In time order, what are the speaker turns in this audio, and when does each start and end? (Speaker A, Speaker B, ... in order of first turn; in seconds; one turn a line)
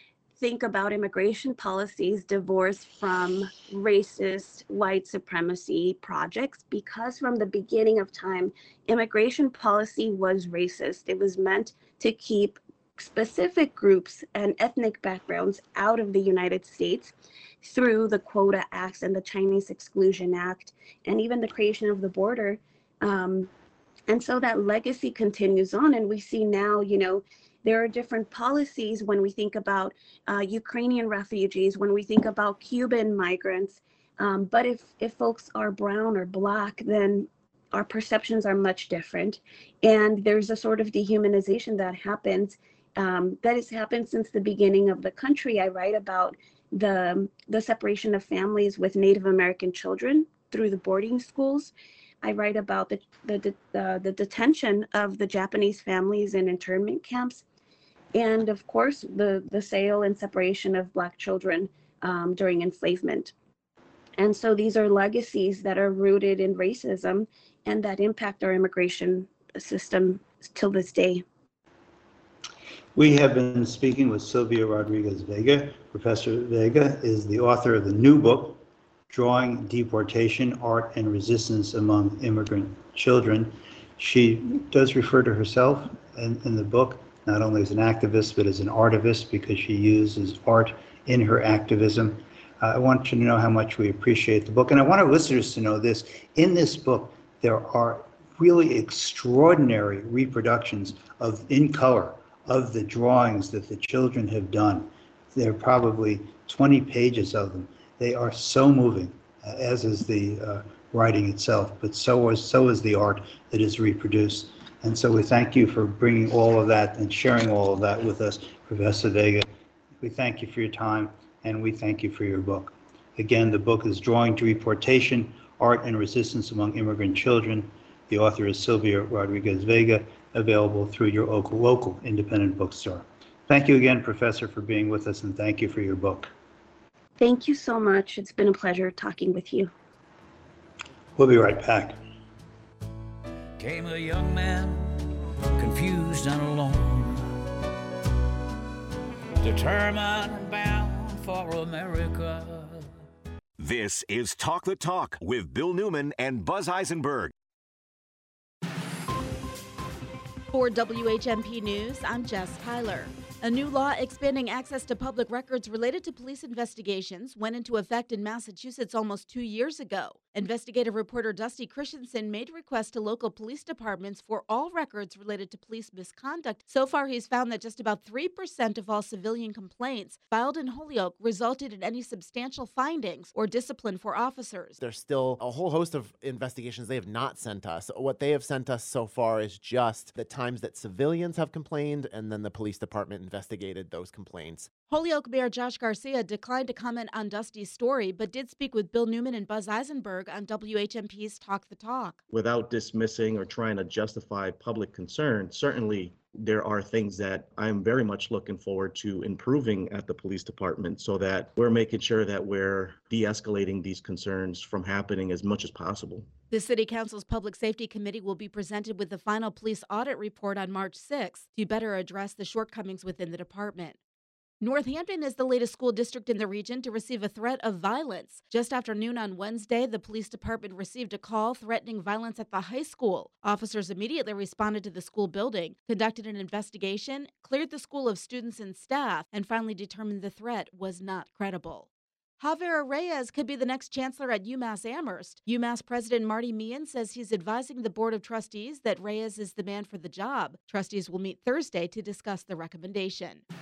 Speaker A: 0.4-23.5
Speaker A: 24.1-57.4
Speaker A: 58.1-63.3
Speaker A: 64.2-71.2
Speaker B: 72.9-119.5
Speaker B: 120.0-136.3
Speaker A: 137.2-139.7
Speaker B: 141.2-142.0
Speaker C: 143.6-145.1
Speaker C: 145.6-147.4
Speaker C: 149.4-152.9
Speaker D: 153.6-157.3
Speaker E: 160.5-184.8
Speaker F: 184.8-194.7
Speaker E: 194.9-202.2
Speaker G: 202.3-216.3
Speaker E: 216.5-224.0
Speaker E: 224.6-241.9
Speaker E: 242.4-253.4